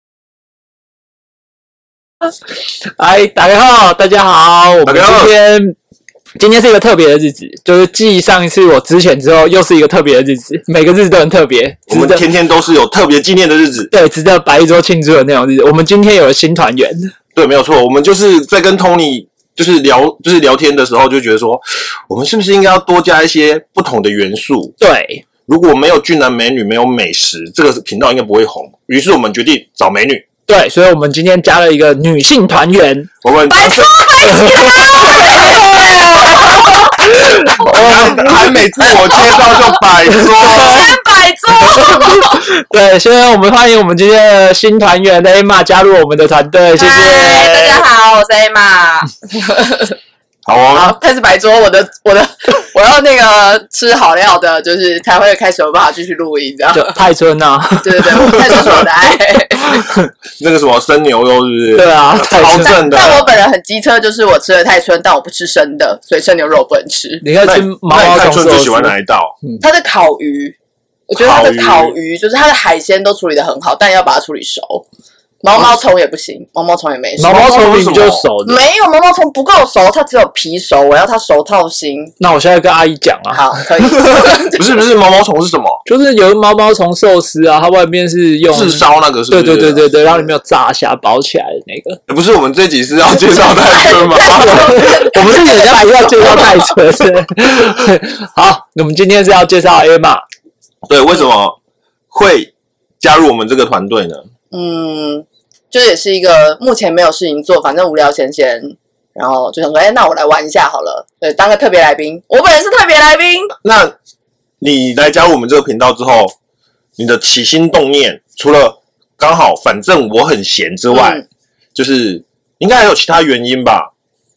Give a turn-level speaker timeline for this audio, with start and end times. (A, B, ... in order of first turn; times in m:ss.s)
0:03.0-0:05.8 A
0:04.8-0:05.3 B
0:06.4-0:12.2 A
0:11.9-0:13.9 B
0:13.9-0:17.1 A
0:17.3-0:24.7 B
0:24.8-0:25.2 A
0:25.5-0:30.2 B
0:30.5-0:33.1 A
0:33.2-0:33.9 B
0:33.5-0:36.8 C
0:34.2-0:38.3 A
0:37.6-0:40.9 B
0:38.8-0:39.8 C
0:40.0-0:40.8 A
0:40.4-0:42.4 C
0:41.7-0:47.6 A
0:46.8-0:49.9 C
0:50.4-0:51.0 B
0:50.7-0:57.0 C
0:56.7-0:58.8 A
0:57.8-0:59.9 C
1:00.4-1:03.3 B
1:01.7-1:02.8 A
1:02.6-1:07.2 C
1:07.2-1:09.6 A
1:07.4-1:09.4 B
1:09.6-1:10.5 C
1:11.1-1:14.8 C
1:11.2-1:11.9 B
1:15.4-1:17.7 C
1:17.2-1:18.6 A
1:17.2-1:18.2 B
1:18.4-1:22.1 C
1:22.2-1:23.7 A
1:23.3-1:24.6 C
1:24.4-1:25.8 B
1:25.8-1:32.0 A
1:28.5-1:29.9 B
1:32.1-1:34.8 B
1:33.3-1:36.7 C
1:34.2-1:40.2 A
1:40.9-1:41.6 B
1:42.1-1:44.2 B
1:44.5-1:53.5 C
1:53.6-1:53.9 B
1:54.6-1:56.3 B
1:57.0-2:01.2 B
2:00.9-2:01.2 C
2:01.7-2:03.9 B